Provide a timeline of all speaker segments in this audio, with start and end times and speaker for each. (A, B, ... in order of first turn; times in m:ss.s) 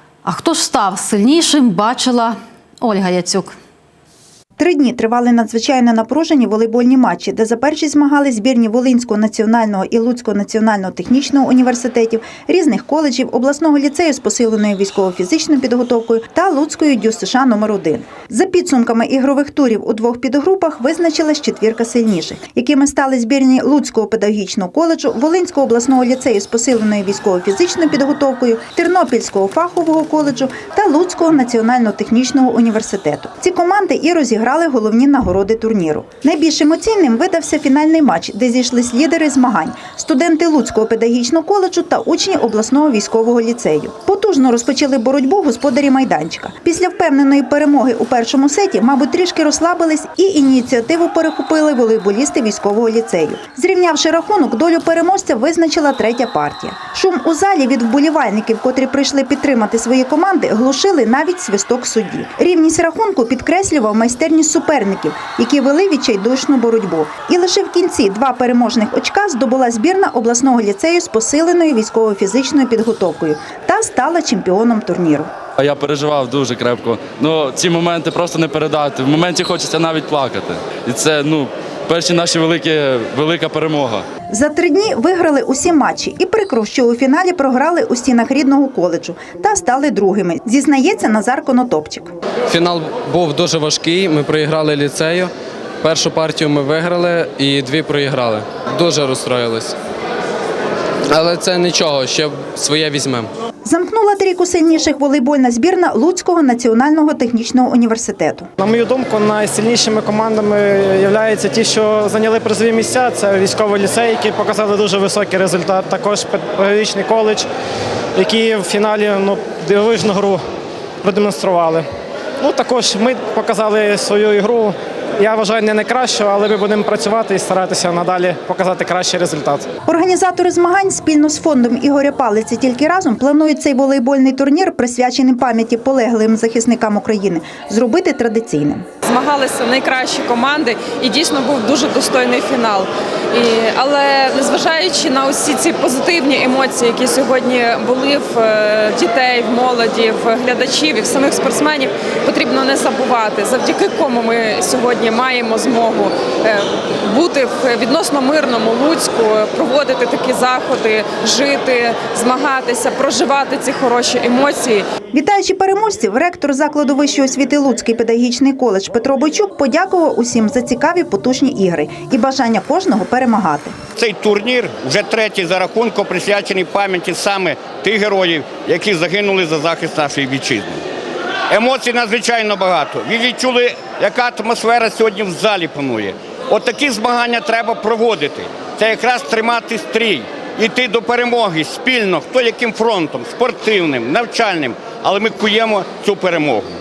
0:00.2-0:03.5 A
0:04.6-1:15.3 B
1:15.6-1:24.0 C
1:24.3-1:32.1 B
1:32.5-1:39.8 D
1:41.1-1:43.3 D
1:43.6-1:48.5 B
1:48.6-1:57.5 E
1:58.2-2:00.4 E
2:01.0-2:01.8 E
2:02.4-2:09.7 E
2:09.9-2:18.9 B
2:19.1-2:44.8 F
2:45.1-2:53.7 B
2:54.0-3:00.8 G
3:01.5-3:16.7 G